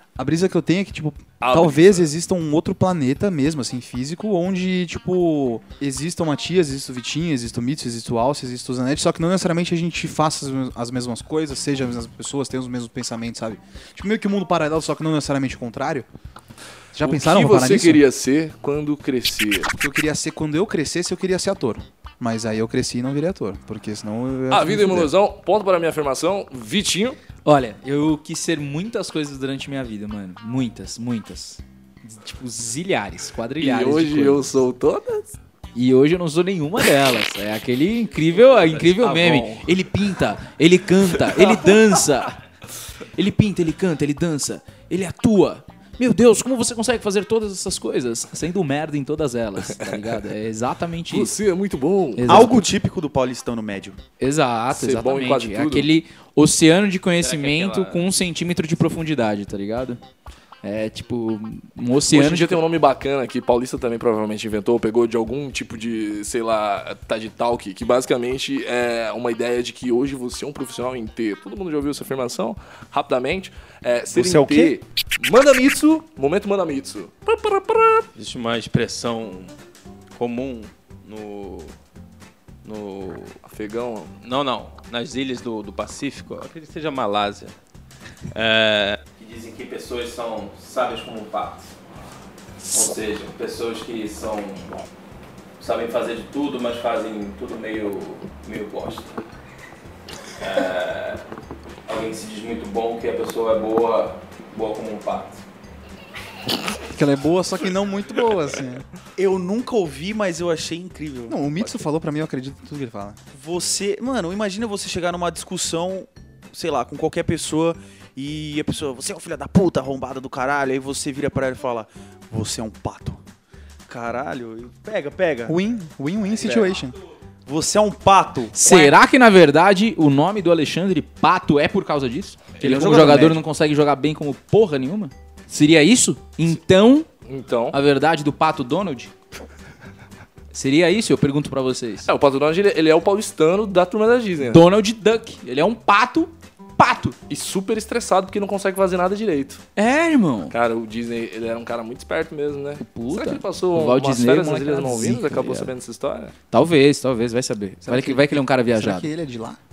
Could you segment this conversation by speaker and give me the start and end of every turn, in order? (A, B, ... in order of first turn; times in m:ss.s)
0:00.2-0:16.1 A
0:01.4-0:02.0 B
0:16.9-0:18.0 A
0:17.0-0:19.7 B
0:19.7-0:25.1 A
0:24.5-0:27.2 B
0:27.4-0:34.5 C
0:33.6-0:35.3 B
0:35.7-0:42.4 C
0:38.2-0:39.6 D
0:39.0-0:39.6 B
0:43.1-0:51.3 C
0:49.6-0:50.0 B
0:51.1-0:52.5 B
0:52.2-0:52.7 C
0:52.3-0:54.0 E
0:54.2-1:00.0 C
0:54.7-0:55.9 B
0:57.2-0:58.0 D
1:00.6-1:02.6 C
1:02.1-1:18.1 B
1:14.1-1:14.8 E
1:18.2-1:19.5 D
1:20.1-1:21.7 D
1:22.6-1:23.4 D
1:23.5-1:24.2 B
1:24.2-1:27.5 D
1:28.3-1:31.7 D
1:32.7-1:34.8 D
1:35.6-1:39.2 D
1:40.4-1:41.2 D
1:41.8-1:45.4 D
1:46.9-1:48.8 A
1:49.2-1:51.5 E
1:51.3-1:53.2 A
1:53.3-2:03.2 E
2:03.9-2:05.6 E
2:05.5-2:06.9 A
2:06.4-2:06.8 E
2:07.4-2:08.6 E
2:08.5-2:17.1 C
2:12.6-2:13.4 E
2:17.2-2:17.8 B
2:17.7-2:19.1 C
2:20.5-2:22.1 C
2:22.0-2:24.6 B
2:24.4-2:27.2 C
2:27.3-2:29.6 B
2:29.8-2:30.5 C
2:30.5-2:36.3 B
2:32.8-2:35.7 C
2:36.5-2:39.1 C
2:37.8-2:39.6 A